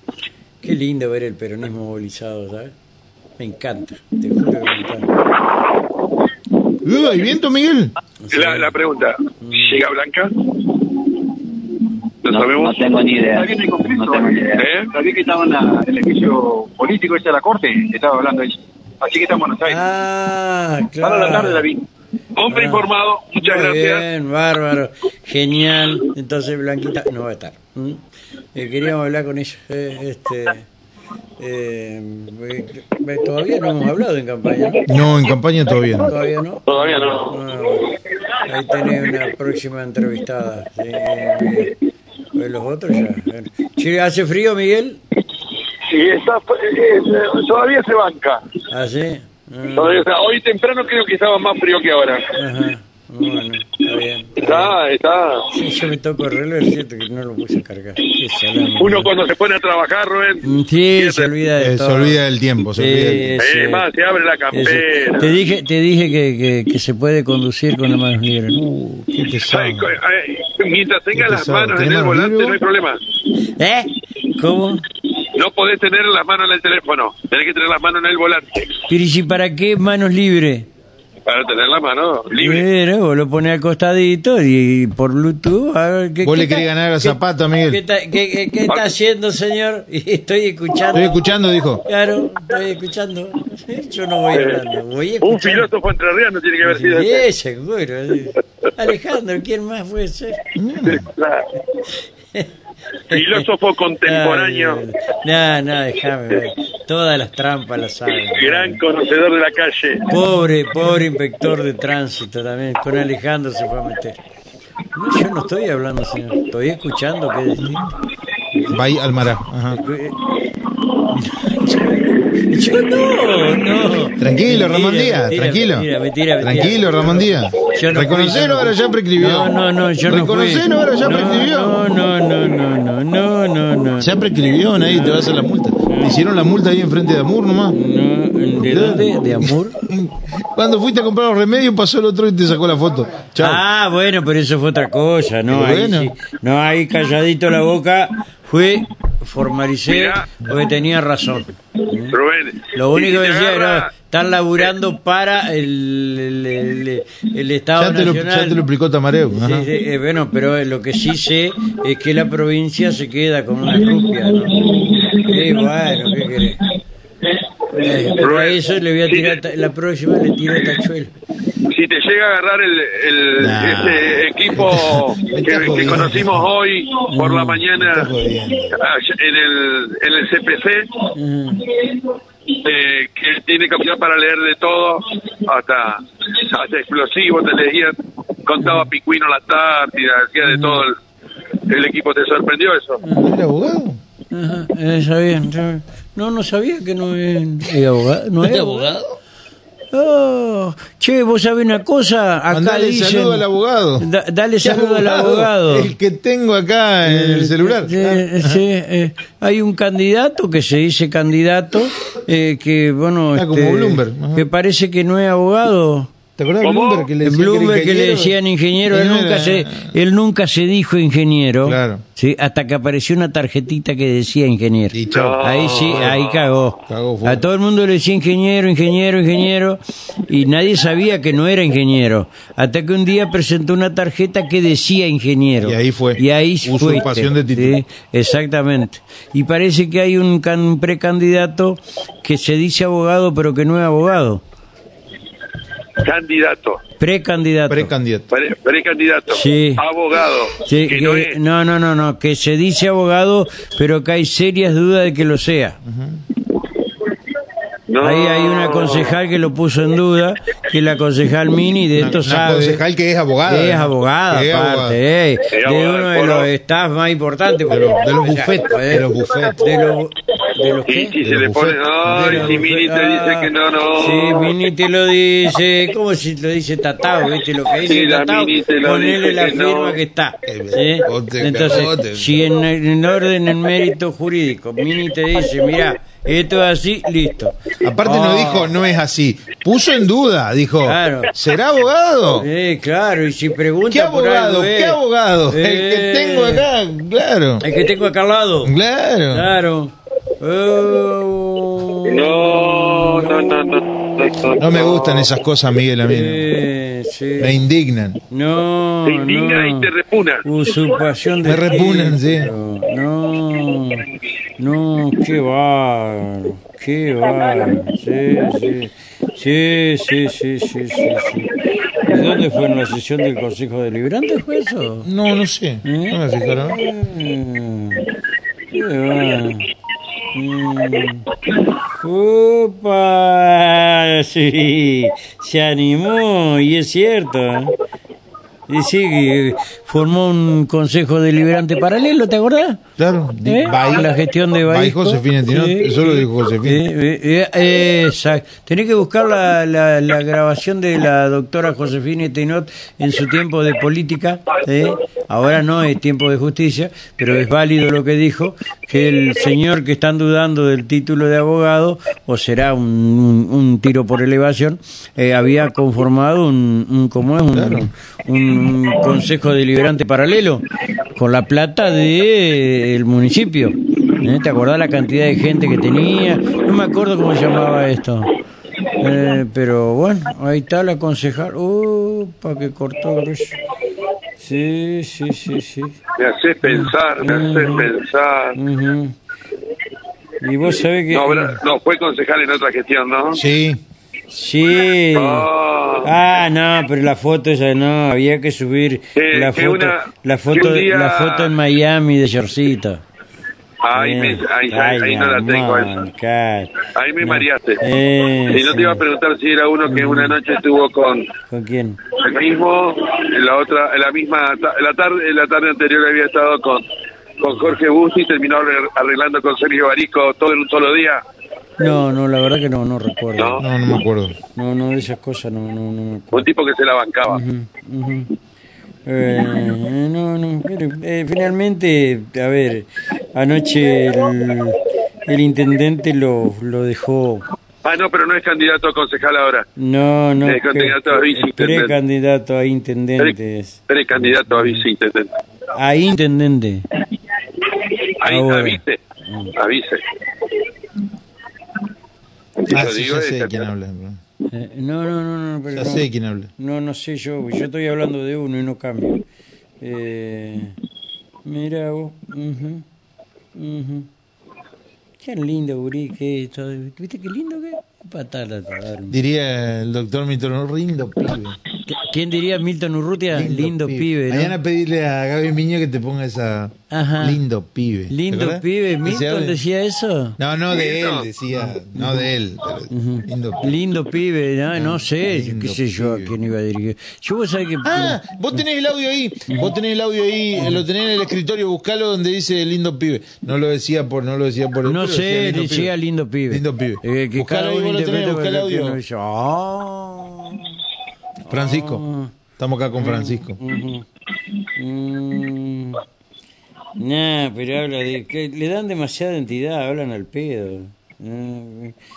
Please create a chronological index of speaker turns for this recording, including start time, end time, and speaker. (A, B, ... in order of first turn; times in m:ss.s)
0:00.6-0:02.7 A
0:03.4-0:05.1 A
0:06.8-0:07.9 B
0:08.3-0:08.7 A
0:08.3-0:10.8 C
0:09.4-0:09.8 A
0:12.2-0:12.9 C
0:12.3-0:14.7 D
0:13.2-0:18.5 E
0:14.4-0:15.0 C
0:19.2-0:19.6 E
0:19.6-0:21.7 A
0:22.4-0:24.0 C
0:22.5-0:28.0 A
0:28.5-0:30.7 A
0:31.4-0:34.9 A
0:34.9-0:36.1 B
0:36.0-0:37.9 A
0:36.7-0:37.4 C
0:38.4-0:41.8 A
0:42.3-0:45.0 A
0:45.8-0:48.4 C
0:48.7-0:50.0 A
0:49.8-0:52.3 C
0:52.3-0:54.8 A
0:54.4-0:55.5 C
0:55.5-0:59.1 A
0:58.8-1:01.3 C
1:00.4-1:03.9 A
1:01.6-1:03.4 B
1:03.4-1:05.4 C
1:04.5-1:08.6 A
1:08.5-1:09.9 B
1:09.4-1:13.0 C
1:11.1-1:12.6 B
1:13.6-1:14.8 A
1:15.3-1:18.8 C
1:18.9-1:20.7 A
1:21.3-1:22.6 C
1:22.4-1:31.2 A
1:26.2-1:27.8 B
1:30.9-1:31.8 B
1:31.8-1:35.7 A
1:34.3-1:34.6 C
1:35.2-1:37.3 C
1:36.6-1:40.4 A
1:40.6-1:41.1 B
1:40.9-1:41.5 C
1:41.8-1:42.5 A
1:43.1-1:43.4 A
1:43.1-1:44.8 C
1:44.0-1:48.8 A
1:48.1-1:50.1 C
1:50.1-1:54.2 A
1:54.9-1:57.9 A
1:58.5-1:58.8 A
1:58.7-1:59.8 B
1:59.7-2:00.3 A
2:01.0-2:14.3 A
2:04.2-2:05.9 B
2:06.4-2:09.5 B
2:10.1-2:11.8 B
2:14.0-2:17.8 B
2:14.8-2:16.2 A
2:17.7-2:19.8 A
2:18.6-2:23.6 B
2:23.4-2:32.2 A
2:25.5-2:26.1 B
2:29.9-2:30.3 C
2:32.1-2:33.9 C
2:32.7-2:38.6 A
2:37.8-2:39.7 B
2:39.3-2:46.6 A
2:47.7-2:51.1 A
2:47.8-2:49.5 C
2:51.6-2:58.1 C
2:53.4-2:56.5 B
2:57.1-2:57.6 A
2:57.8-2:58.8 B
2:58.7-3:01.1 C
3:01.1-3:01.7 A
3:01.8-3:11.0 C
3:08.6-3:08.9 A
3:10.4-3:10.8 A
3:11.6-3:13.0 C
3:13.0-3:13.3 A
3:13.2-3:14.0 B
3:14.3-3:19.0 A
3:18.4-3:19.2 B
3:19.9-3:23.5 A
3:22.5-3:24.1 B
3:24.0-3:25.9 A
3:24.6-3:28.6 B
3:27.0-3:36.1 A
3:33.3-3:34.5 B
3:36.4-3:38.4 B
3:36.6-3:37.1 C
3:37.2-4:04.4 A
3:38.9-3:40.0 B
3:41.6-3:42.0 B
3:44.9-3:46.2 B
3:45.1-3:46.4 C
3:46.8-3:47.4 B
3:55.6-3:57.8 B
4:06.0-4:06.8 C
4:07.0-4:07.9 A
4:07.7-4:08.3 B
4:08.3-4:11.4 C
4:09.3-4:09.8 A
4:10.6-4:15.8 A
4:15.8-4:16.2 B
4:17.9-4:19.2 C
4:18.0-4:22.8 A
4:21.9-4:25.0 B
4:23.4-4:31.2 A
4:25.5-4:26.5 C
4:27.7-4:29.7 B
4:30.8-4:34.5 C
4:31.2-4:32.6 B
4:32.1-4:48.8 A
4:37.8-4:40.0 C
4:40.4-4:42.4 B
4:47.8-4:52.5 B
4:50.8-4:51.3 A
4:52.3-4:56.7 A
4:53.9-4:57.7 B
4:57.6-4:58.8 A
4:58.6-4:59.5 B
4:59.3-5:03.5 A
5:02.1-5:05.3 C
5:04.6-5:06.5 B
5:06.0-5:07.6 A
5:07.4-5:08.2 B
5:08.3-5:09.9 A
5:09.0-5:10.4 C
5:10.4-5:14.1 A
5:11.4-5:12.5 B
5:14.6-5:25.1 A
5:25.0-5:26.8 B
5:25.8-5:28.1 A
5:28.7-5:29.7 A
5:30.3-5:31.3 A
5:31.8-5:37.8 A
5:38.7-5:42.8 A
5:43.0-5:44.1 B
5:43.4-6:18.3 A
5:44.6-5:46.8 B
6:07.5-6:07.9 B
6:19.0-6:23.6 A
6:24.4-6:26.0 A
6:26.2-6:28.5 C
6:26.6-6:27.9 A
6:28.5-6:29.2 A
6:30.4-6:31.6 A
6:31.1-6:33.4 C
6:33.3-6:33.8 B
6:34.3-6:35.5 A
6:35.1-6:36.1 C
6:36.0-6:43.0 A
6:39.2-6:41.5 C
6:43.8-6:46.0 C
6:43.9-6:49.0 A
6:46.9-6:47.8 C
6:48.5-6:51.3 C
6:49.8-6:50.4 A
6:51.5-6:52.0 A
6:52.1-6:56.8 C
6:57.4-7:01.2 C
6:57.5-6:57.8 A
7:01.8-7:03.6 A
7:03.4-7:03.6 C
7:03.6-7:04.4 B
7:04.5-7:06.4 A
7:06.3-7:07.4 C
7:07.3-7:08.3 A
7:09.1-7:17.5 A
7:17.8-7:19.6 C
7:19.8-7:24.8 A
7:20.4-7:22.0 C
7:23.9-7:25.3 C
7:25.7-7:26.8 A
7:28.2-7:29.0 C
7:28.2-7:29.5 A
7:29.5-7:30.0 C
7:32.6-7:33.7 C
7:32.7-7:34.2 B
7:34.5-7:39.2 A
7:35.7-7:36.5 B
7:39.8-7:40.8 A
7:41.4-7:42.8 A
7:43.5-7:44.1 A
7:45.2-7:49.2 A
7:49.1-7:51.6 B
7:51.9-7:54.6 A
7:53.3-7:59.6 B
7:56.9-7:57.4 A
7:58.1-8:00.4 A
8:00.4-8:03.8 B
8:00.7-8:01.3 C
8:01.5-8:02.3 A
8:02.9-8:08.6 A
8:04.7-8:06.4 B
8:07.8-8:15.9 B
8:09.5-8:09.7 A
8:10.6-8:10.8 A
8:14.8-8:20.8 A
8:16.5-8:19.0 B
8:21.4-8:22.3 A
8:21.5-8:22.0 B
8:22.6-8:23.6 B
8:23.0-8:24.1 A
8:24.8-8:26.0 A
8:27.0-8:32.0 A